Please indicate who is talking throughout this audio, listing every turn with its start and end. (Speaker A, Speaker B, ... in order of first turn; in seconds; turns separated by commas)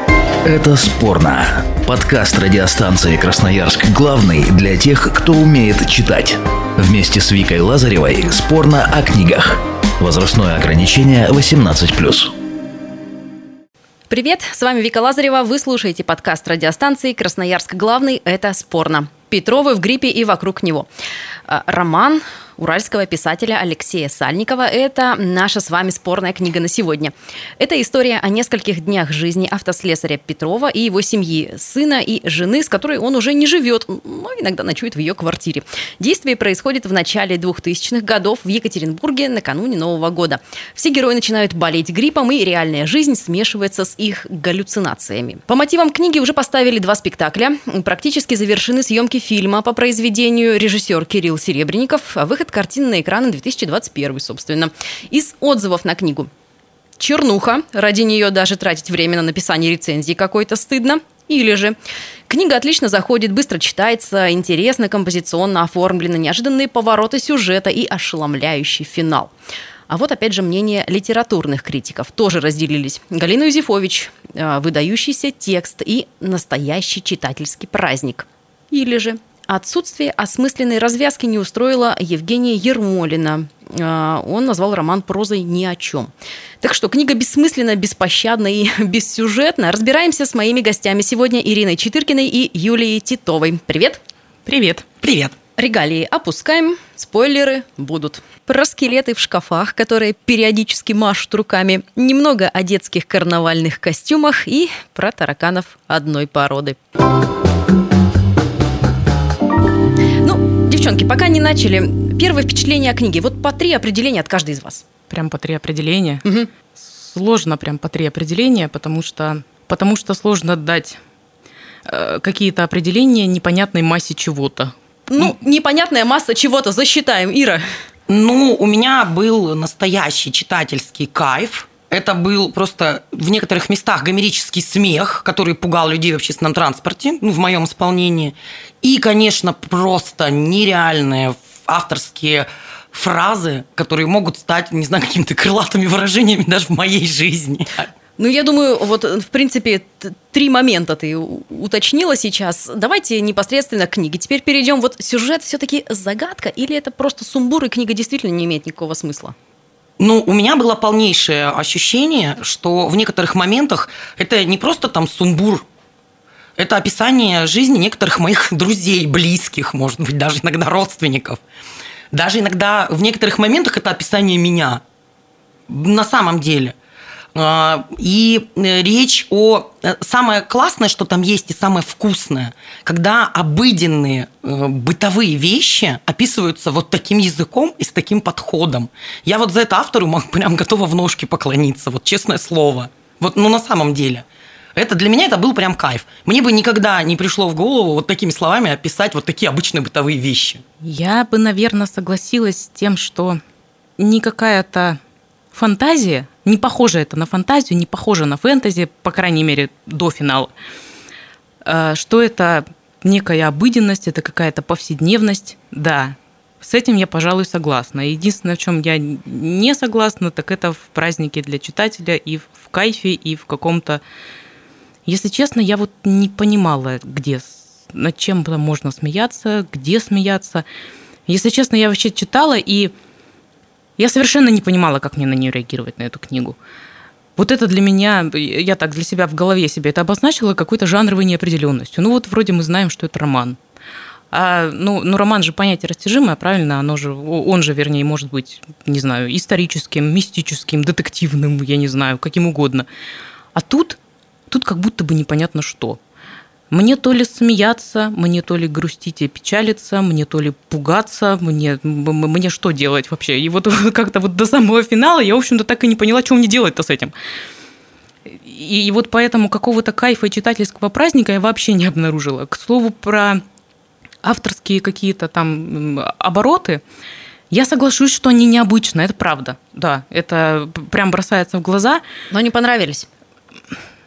Speaker A: 0.5-12.3, Speaker B: 14.1-20.9, Speaker B: 21.5-56.3, Speaker B: 57.0-61.8, Speaker B: 62.3-69.3, Speaker B: 69.9-86.1, Speaker B: 86.6-94.0, Speaker C: 94.5-94.8, Speaker D: 95.0-95.3, Speaker B: 95.6-106.8, Speaker B: 110.2-114.8, Speaker C: 115.1-116.2, Speaker C: 116.8-121.0, Speaker C: 121.8-125.3, Speaker B: 125.1-127.6, Speaker D: 128.1-147.9, Speaker B: 148.2-159.3, Speaker D: 160.0-165.7, Speaker D: 166.6-171.4, Speaker D: 172.1-174.8, Speaker D: 175.7-176.8, Speaker D: 177.3-200.6, Speaker C: 200.8-203.4, Speaker C: 204.0-205.0, Speaker C: 205.5-210.5, Speaker C: 211.6-224.0, Speaker C: 225.1-230.7, Speaker C: 231.3-232.9, Speaker C: 234.0-236.6, Speaker C: 237.4-243.6, Speaker C: 244.3-252.9, Speaker C: 253.6-254.0, Speaker C: 254.5-256.0, Speaker C: 256.7-267.1, Speaker C: 268.3-273.4, Speaker C: 274.2-276.8, Speaker C: 277.5-282.0, Speaker B: 282.3-283.1